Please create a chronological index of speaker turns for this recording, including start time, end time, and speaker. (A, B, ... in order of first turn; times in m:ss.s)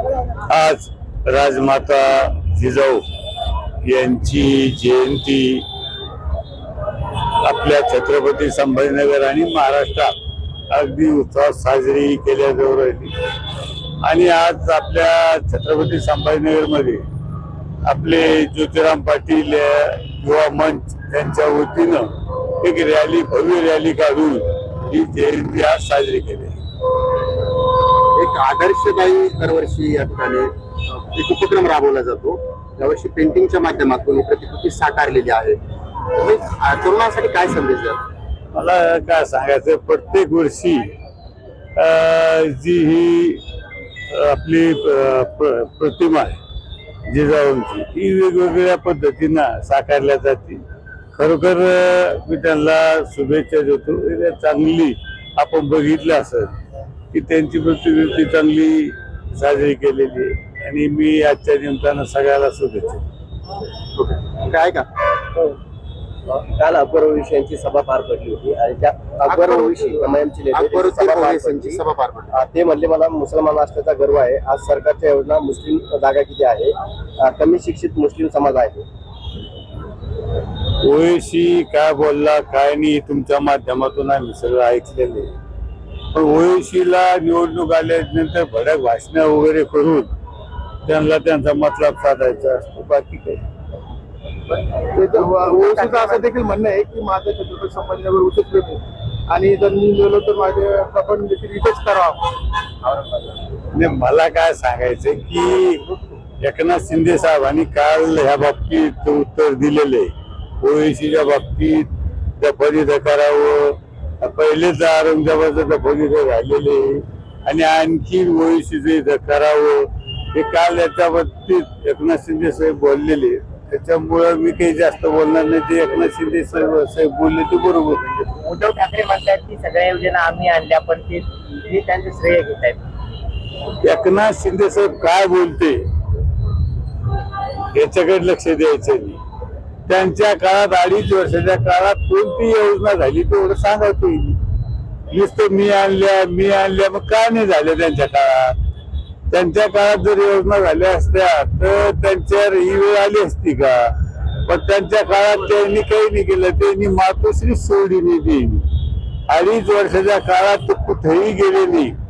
0:00.5-0:03.0 A
0:03.8-0:05.6 A
0:07.4-0:10.1 A
0:10.7-0:13.1 A
0:14.0-0:17.0 A
0:17.8-0:26.6 A
0:28.1-0:35.6 B
0:36.1-0:38.0 B
0:38.5-0:40.9 A
0:41.8-0:43.4 A
0:44.1-0:46.4 A
0:47.1-0:50.6 A
0:51.1-0:56.5 A
0:57.1-1:03.0 A
1:03.9-1:04.9 B
1:06.3-1:11.8 C
1:09.2-1:12.3 B
1:12.3-1:16.7 C
1:17.3-1:18.8 C
1:20.8-1:25.3 A
1:26.1-1:30.1 A
1:30.8-1:33.4 A
1:34.9-1:42.2 D
1:43.6-2:08.2 A
2:08.4-2:12.8 E
2:13.8-2:15.8 A
2:17.7-2:19.2 A
2:19.9-2:24.4 A
2:25.1-2:28.6 A
2:29.3-2:33.9 A
2:34.4-2:38.6 A
2:39.3-2:41.9 A